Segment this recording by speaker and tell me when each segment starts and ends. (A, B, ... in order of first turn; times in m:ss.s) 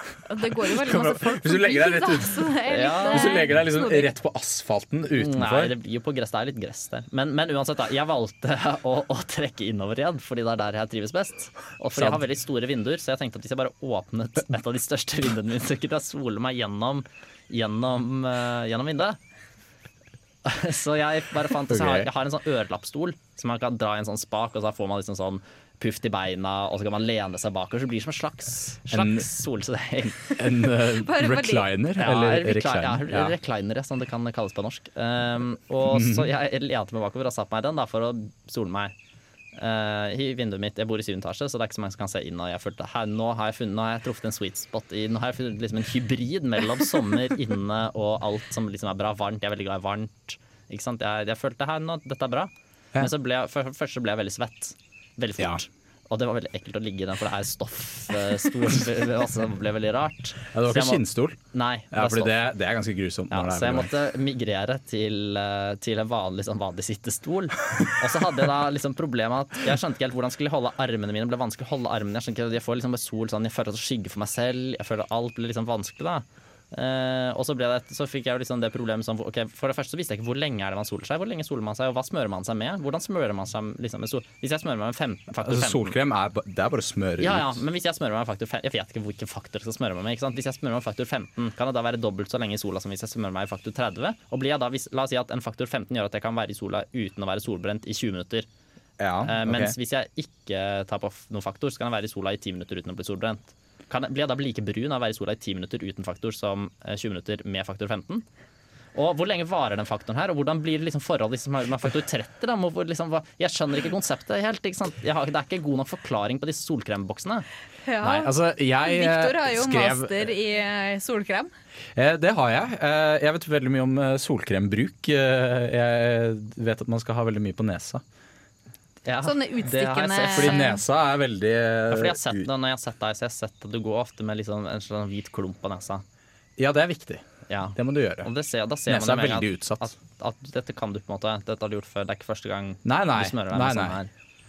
0:00.2-0:04.1 A
0:00.6-0:05.7 B
0:02.6-0:03.4 C
0:05.1-0:19.2 C
0:11.9-0:12.2 B
0:20.4-0:30.4 C
0:21.7-0:22.1 B
0:28.9-0:29.3 B
0:30.2-0:33.4 B
0:30.9-0:31.7 A
0:32.0-0:38.9 C
0:35.8-0:36.3 B
0:39.5-1:02.4 C
1:00.5-1:01.4 B
1:01.9-1:03.9 B
1:03.3-1:25.9 C
1:25.4-1:27.6 B
1:27.2-1:38.5 C
1:39.0-1:39.8 B
1:39.2-1:48.2 C
1:48.9-1:57.4 C
1:57.8-2:01.5 A
1:58.0-2:00.3 B
2:01.9-2:08.0 B
2:09.0-2:10.6 C
2:09.2-2:10.8 A
2:10.3-2:12.5 B
2:11.9-2:16.0 C
2:16.6-2:17.2 B
2:17.5-2:24.1 C
2:17.7-2:18.3 B
2:18.9-2:19.9 B
2:22.8-2:24.0 B